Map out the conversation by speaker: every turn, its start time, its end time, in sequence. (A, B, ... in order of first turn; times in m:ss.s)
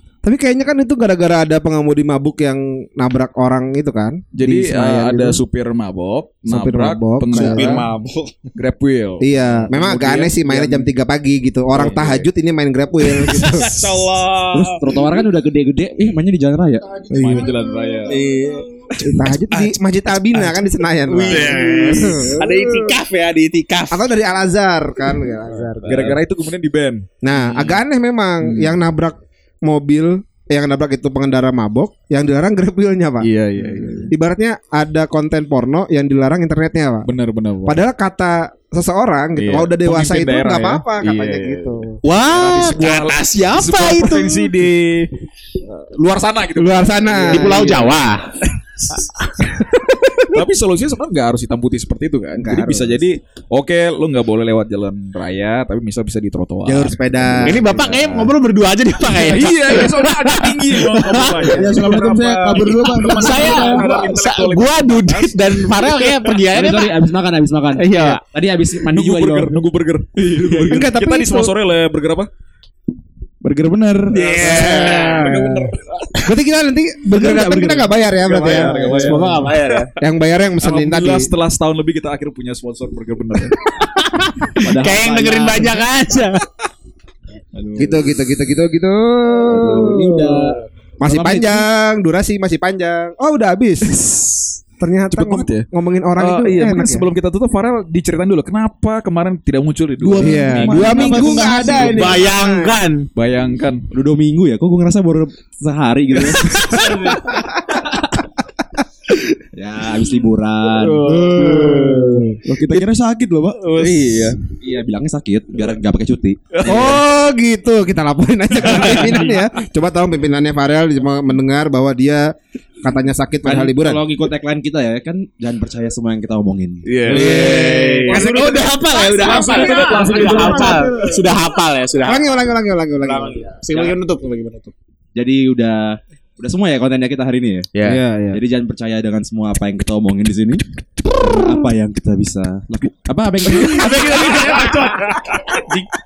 0:00.2-0:05.4 A
0:04.3-0:07.9 B
0:06.4-0:07.9 A
0:07.6-0:08.5 C
0:08.6-0:09.3 B
0:09.2-0:13.8 A
0:09.6-0:10.9 D
0:11.7-0:12.3 B
0:13.0-0:15.0 C
0:14.5-0:16.9 D
0:16.8-0:18.4 E
0:17.1-0:18.2 B
0:18.1-0:18.6 C
0:19.0-0:23.0 A
0:21.1-0:24.1 C
0:21.3-0:22.3 B
0:23.9-0:26.2 A
0:25.6-0:27.8 B
0:27.2-0:37.1 A
0:28.4-0:28.8 B
0:33.2-0:34.1 B
0:37.0-0:37.8 B
0:37.6-0:42.0 A
0:39.4-0:45.1 B
0:42.0-0:44.5 C
0:45.6-0:48.0 B
0:46.6-0:48.0 A
0:47.3-0:50.1 C
0:50.3-0:58.0 B
0:52.4-0:53.0 A
0:56.6-0:58.3 A
0:57.4-1:06.9 C
0:59.0-1:06.4 B
1:01.4-1:03.9 E
1:06.5-1:09.5 D
1:07.8-1:08.2 C
1:08.9-1:12.3 B
1:10.2-1:10.8 D
1:10.6-1:11.5 A
1:13.4-1:14.2 E
1:14.1-1:15.5 C
1:14.2-1:15.7 A
1:14.7-1:15.6 B
1:16.2-1:19.2 A
1:17.1-1:17.9 D
1:18.3-1:19.3 B
1:18.5-1:19.9 C
1:18.8-1:19.5 D
1:20.0-1:21.3 A
1:20.6-1:23.6 B
1:23.7-1:26.5 C
1:24.6-1:25.8 D
1:27.5-1:28.1 B
1:27.8-1:30.2 A
1:29.5-1:31.6 D
1:31.0-1:34.0 A
1:33.8-1:34.4 B
1:34.8-1:37.1 A
1:35.1-1:40.8 B
1:40.0-1:42.2 E
1:40.2-1:42.8 A
1:40.5-1:41.4 D
1:40.7-1:41.1 C
1:41.8-1:43.1 C
1:43.1-1:43.8 B
1:43.9-1:46.6 D
1:46.2-1:47.3 B
1:49.5-1:51.1 D
1:50.8-1:52.8 B
1:51.0-1:53.7 E
1:53.6-1:54.4 B
1:54.6-1:56.4 D
1:56.5-1:57.0 B
1:56.6-2:02.3 A
1:58.6-1:59.4 B
2:02.8-2:04.0 A
2:03.4-2:07.2 D
2:06.8-2:08.6 B
2:07.1-2:14.7 C
2:07.3-2:11.3 A
2:09.3-2:09.6 B
2:09.3-2:10.8 D
2:12.0-2:13.5 A
2:15.2-2:17.7 D
2:17.8-2:18.0 C
2:17.8-2:18.4 A
2:18.3-2:20.6 D
2:21.2-2:24.6 D
2:23.7-2:25.8 C